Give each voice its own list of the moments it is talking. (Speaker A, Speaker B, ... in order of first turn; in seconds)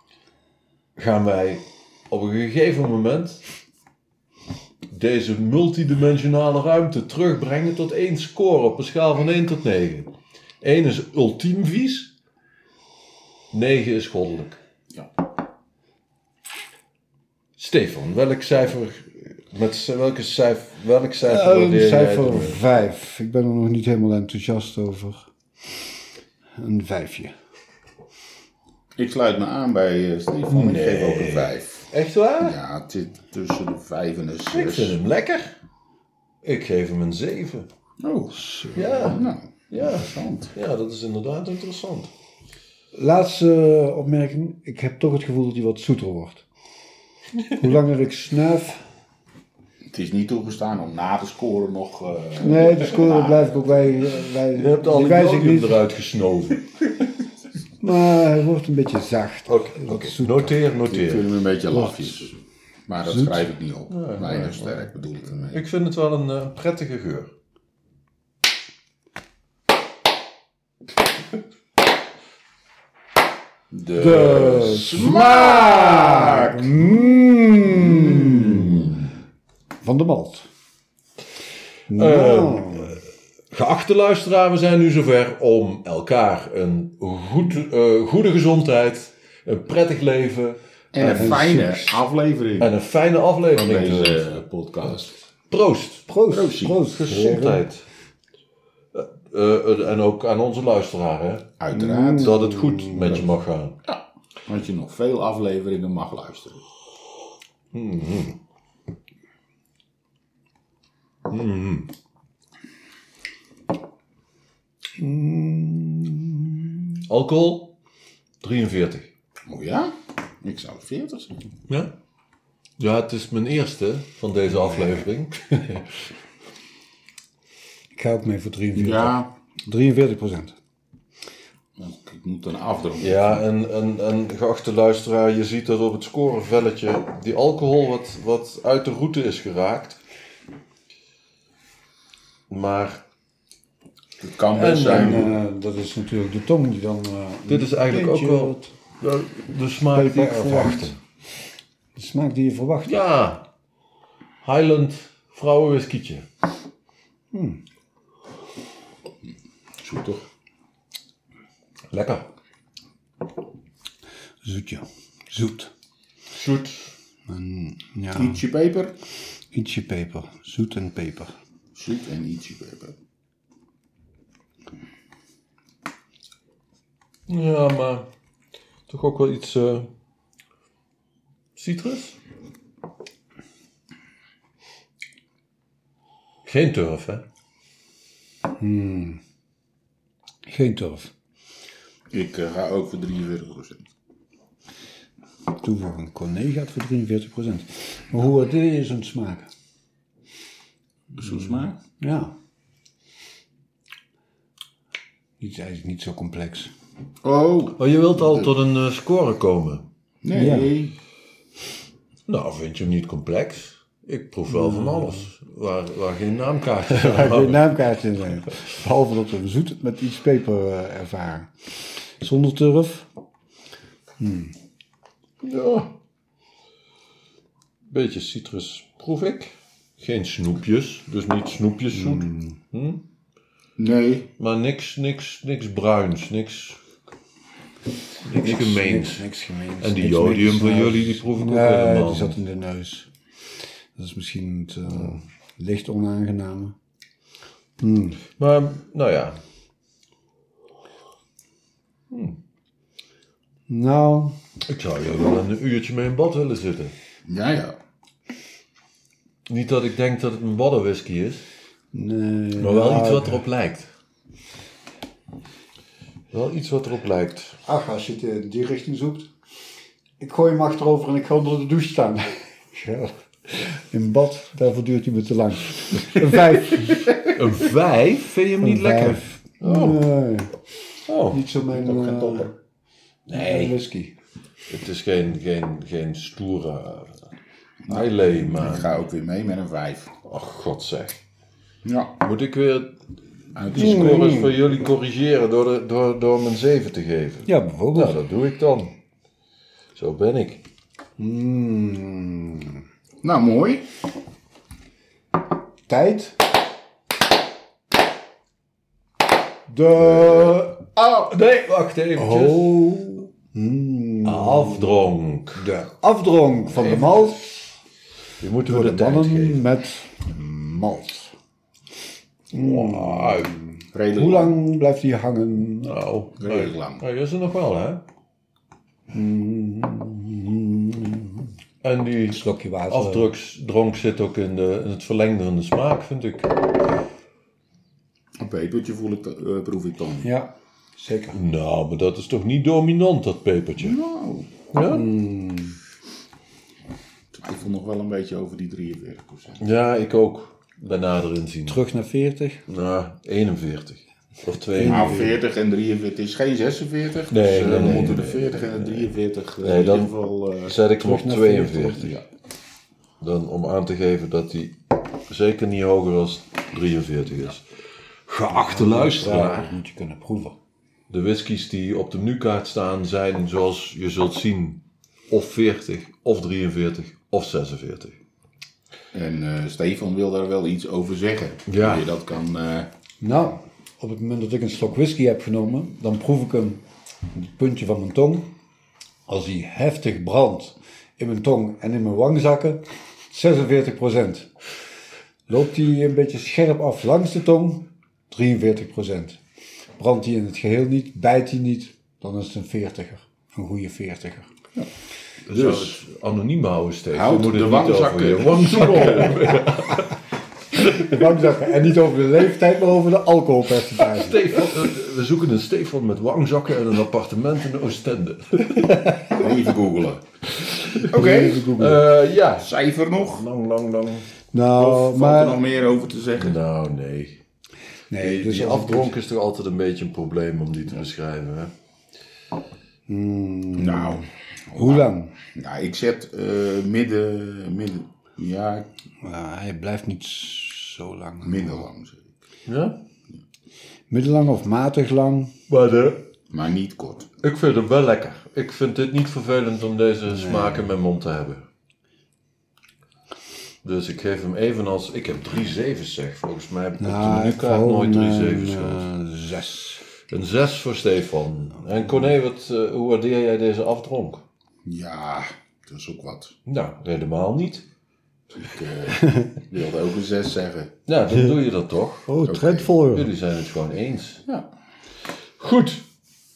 Speaker A: 1.0-3.4, 4.9-10.1, 10.6-12.1, 13.5-14.6, 17.6-22.6, 30.5-32.6, 34.5-35.5, 36.4-37.7, 38.7-42.1, 54.5-56.6, 59.5-61.3, 63.9-64.8, 65.5-67.3, 81.9-91.4, 92.6-94.4, 95.5-96.1, 96.8-97.8, 98.9-103.8, 107.7-108.4, 111.3-111.9, 117.1-117.7, 118.4-119.1, 121.7-121.9, 122.8-125.8, 133.0-140.0, 142.5-143.0, 144.5-145.3, 147.5-150.9, 152.9-153.4, 154.4-156.2, 161.9-162.2, 166.3-166.9, 177.3-178.1, 178.9-179.9, 181.6-182.2, 186.4-187.2, 207.8-209.8, 212.3-217.6, 225.4-225.9, 227.9-233.0, 234.4-236.8, 238.2-239.2, 239.8-242.4, 248.4-249.4, 252.1-252.4, 254.7-256.9, 259.5-261.4, 262.6-263.9, 266.3-267.6, 276.0-280.0, 281.1-281.4, 283.3-283.8, 284.7-287.2, 287.9-288.9, 290.2-291.2, 292.2-293.0, 293.6-298.9, 299.9-300.6, 310.0-310.6, 311.2-312.9, 314.2-315.6, 316.7-317.4, 318.4-319.6, 322.6-323.6, 325.8-328.0, 331.8-336.5, 341.3-344.0, 344.7-345.0, 349.6-351.8, 352.7-355.3, 357.3-362.1, 363.2-367.7, 368.3-369.7, 371.1-378.2, 381.7-382.1, 405.4-410.1, 414.1-419.4, 420.5-421.1, 421.7-424.3, 426.4-427.4, 428.1-431.7, 442.6-443.0, 445.7-446.3, 447.4-451.6, 453.8-459.1, 460.3-464.4, 466.6-467.8, 471.1-472.3, 473.1-474.4, 475.6-476.1
Speaker B: 21.2-25.3, 26.6-27.3, 38.4-39.1, 42.9-46.5, 47.5-48.8, 52.4-55.8, 57.8-60.5, 61.7-62.3, 63.0-63.5, 74.0-79.0, 79.8-80.5, 81.9-83.0, 91.0-92.0, 96.1-97.7, 101.7-103.2, 115.0-117.0, 124.7-125.0, 127.9-130.6, 144.8-148.7, 149.9-150.9, 151.9-153.0, 157.3-157.6, 164.4-165.7, 167.3-168.4, 169.5-171.3, 188.6-189.2, 190.4-191.1, 195.6-199.5, 201.2-202.3, 205.4-206.7, 210.3-210.7, 214.5-215.2, 216.9-221.5, 222.2-223.1, 224.2-224.5, 231.9-232.6, 238.3-243.1, 243.9-246.8, 247.8-248.2, 253.7-254.4, 261.9-263.4, 267.6-269.3, 270.2-277.1, 278.6-280.6, 281.3-282.5, 283.3-284.1, 293.7-294.5, 297.4-298.1, 301.2-302.8, 305.9-306.4, 309.7-311.3, 312.1-314.9, 315.6-317.7, 318.6-321.3, 322.5-326.0, 329.1-331.5, 332.3-333.3, 340.2-341.4, 344.9-345.8, 351.7-352.6, 354.7-355.4, 357.8-358.1, 361.0-362.1, 368.5-370.6, 383.2-388.5, 389.3-394.5, 395.5-399.4, 400.0-404.5, 410.8-414.6, 421.1-422.0, 424.5-425.6, 428.1-429.1, 433.1-434.2, 434.7-435.3, 439.2-441.9, 444.1-445.5, 450.3-450.9, 457.0-460.0, 469.1-469.5, 472.3-473.3
Speaker C: 28.9-31.9, 32.4-35.0, 38.0-40.5, 49.9-54.2, 60.8-62.3, 62.9-65.7, 73.7-77.0, 77.6-79.0, 90.9-92.7, 93.5-95.1, 96.3-96.8, 101.6-102.4, 103.8-106.6, 119.5-121.5, 128.7-129.3, 131.8-133.4, 144.2-145.3, 159.8-160.2, 168.1-168.9, 171.7-172.9, 192.1-193.9, 201.2-201.8, 207.2-208.5, 210.2-210.9, 233.8-234.3, 257.3-257.8, 281.7-282.5, 287.8-290.1, 291.8-292.1, 293.5-294.3, 303.2-303.8, 323.9-324.6, 326.4-327.0, 338.4-340.3, 343.8-344.5, 347.3-349.6, 354.8-360.8, 379.1-382.9, 405.5-406.0, 407.1-409.6, 419.3-420.2, 421.1-421.8, 422.4-423.4, 424.7-426.6, 433.8-438.9, 441.4-442.4, 446.5-447.3, 464.8-466.5, 468.5-470.9, 472.4-473.0